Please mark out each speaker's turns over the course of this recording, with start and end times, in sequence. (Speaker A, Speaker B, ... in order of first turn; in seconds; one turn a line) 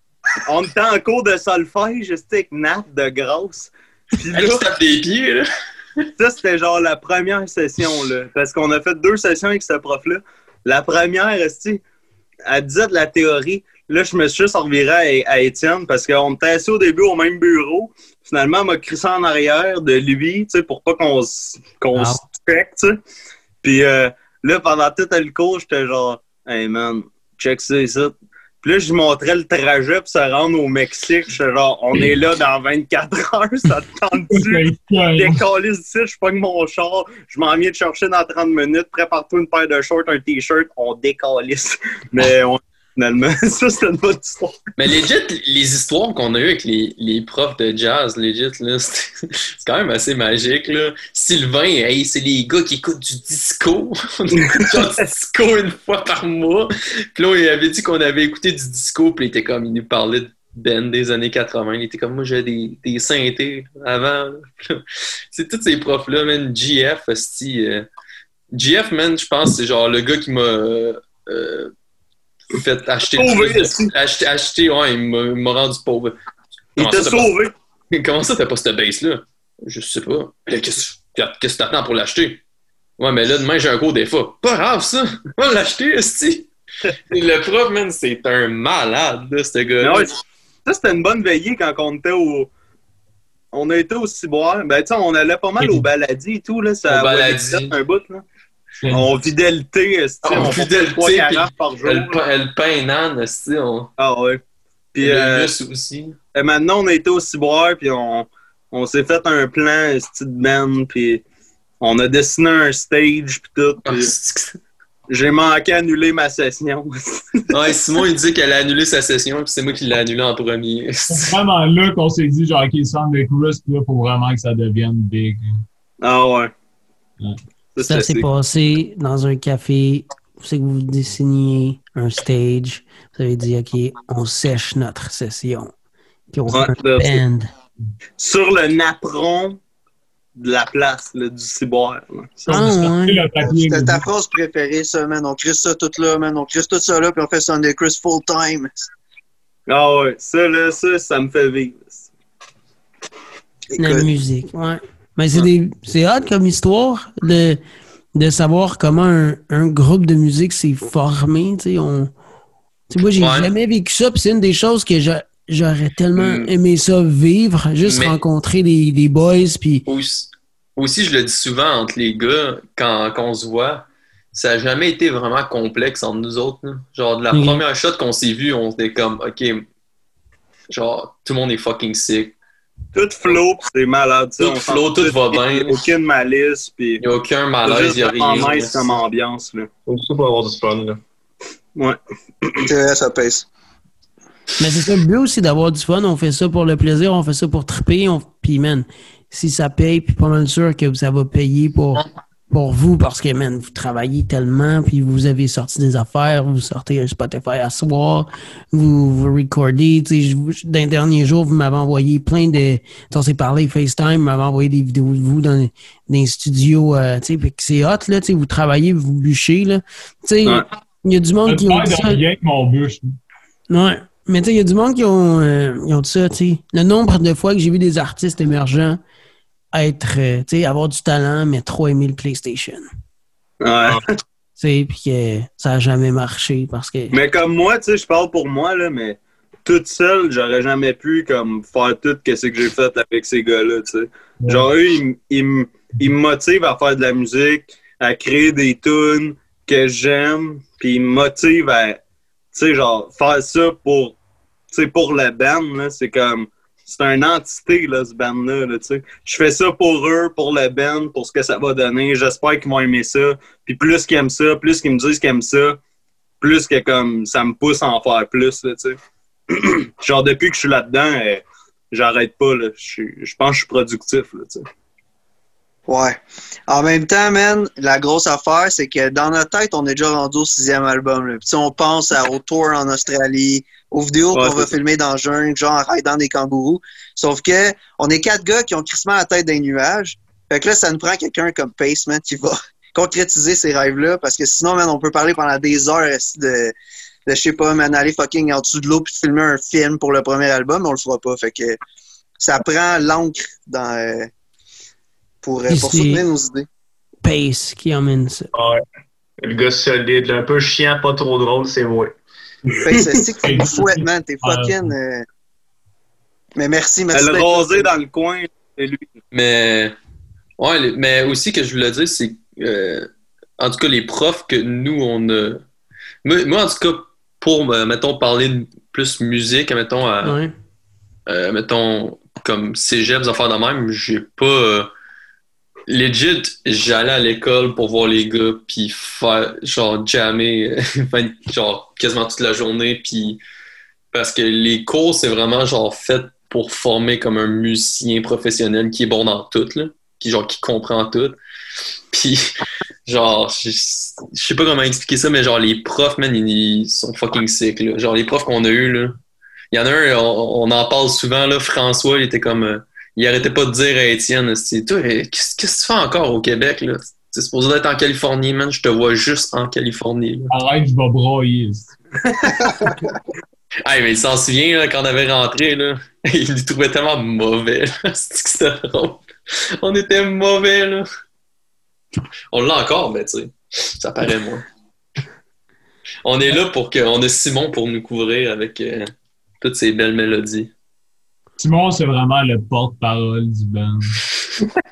Speaker A: 0.4-4.7
Speaker B: 4.3-5.5
Speaker A: 6.2-11.8
Speaker A: 12.5-23.0
Speaker C: 21.9-22.2
Speaker A: 23.6-44.6
Speaker D: 34.3-35.4
Speaker B: 44.8-67.9
Speaker A: 54.5-54.9
Speaker B: 68.5-71.7
Speaker B: 72.5-76.2
Speaker A: 73.1-73.9
Speaker B: 76.8-77.3
Speaker A: 76.8-77.5
Speaker B: 77.9-82.4
Speaker B: 83.0-86.5
Speaker B: 87.1-90.1
Speaker A: 89.8-92.5
Speaker A: 93.5-98.2
Speaker D: 95.6-95.9
Speaker B: 96.9-97.8
Speaker D: 98.8-99.1
Speaker A: 98.9-102.2
Speaker B: 100.2-103.9
Speaker A: 104.0-104.4
Speaker A: 104.9-105.5
Speaker B: 105.0-106.2
Speaker A: 106.3-111.2
Speaker A: 111.8-114.1
Speaker B: 113.8-114.6
Speaker A: 115.1-117.5
Speaker B: 117.5-121.3
Speaker D: 121.1-125.6
Speaker A: 126.0-126.5
Speaker A: 127.7-128.2
Speaker C: 127.8-135.7
Speaker C: 136.3-137.5
Speaker A: 136.5-137.2
Speaker A: 138.2-139.6
Speaker A: 140.4-142.7
Speaker C: 142.5-143.2
Speaker D: 142.5-144.0
Speaker E: 143.4-148.8
Speaker A: 149.7-152.0
Speaker E: 153.7-154.1
Speaker C: 153.8-157.6
Speaker C: 158.1-162.1
Speaker C: 162.9-169.8
Speaker B: 163.2-163.5
Speaker B: 166.2-166.5
Speaker B: 167.8-168.2
Speaker B: 169.9-179.7
Speaker C: 177.3-177.6
Speaker B: 180.7-182.3
Speaker A: 182.9-187.0
Speaker B: 184.4-185.8
Speaker B: 187.0-188.9
Speaker A: 187.6-189.7
Speaker F: 189.9-191.0
Speaker A: 191.8-192.7
Speaker E: 192.7-193.5
Speaker C: 194.6-222.2
Speaker D: 221.4-223.2
Speaker C: 223.7-229.0
Speaker C: 229.7-232.8
Speaker A: 233.6-234.1
Speaker C: 234.6-237.2
Speaker A: 237.1-252.0
Speaker D: 244.4-244.7
Speaker A: 252.5-254.2
Speaker A: 254.7-265.8
Speaker A: 266.4-269.0
Speaker A: 269.5-274.6
Speaker E: 275.9-296.7
Speaker A: 284.3-284.7
Speaker E: 297.3-301.8
Speaker E: 302.4-304.3
Speaker E: 305.4-306.7
Speaker C: 305.7-306.2
Speaker C: 307.2-308.5
Speaker F: 308.5-308.8
Speaker F: 309.4-312.1
Speaker E: 312.9-315.2
Speaker A: 312.9-313.1
Speaker D: 313.4-314.9
Speaker E: 316.6-317.9
Speaker A: 317.1-319.1
Speaker B: 319.3-319.9
Speaker B: 320.6-323.1
Speaker B: 323.6-325.6
Speaker B: 326.2-330.4
Speaker C: 330.2-330.5
Speaker B: 331.3-334.9
Speaker B: 335.9-343.4
Speaker B: 344.1-351.4
Speaker B: 352.1-352.4
Speaker B: 353.1-359.2
Speaker B: 359.7-370.5
Speaker D: 370.5-371.9
Speaker B: 373.8-381.1
Speaker B: 382.5-384.6
Speaker B: 386.2-390.7
Speaker D: 391.6-394.1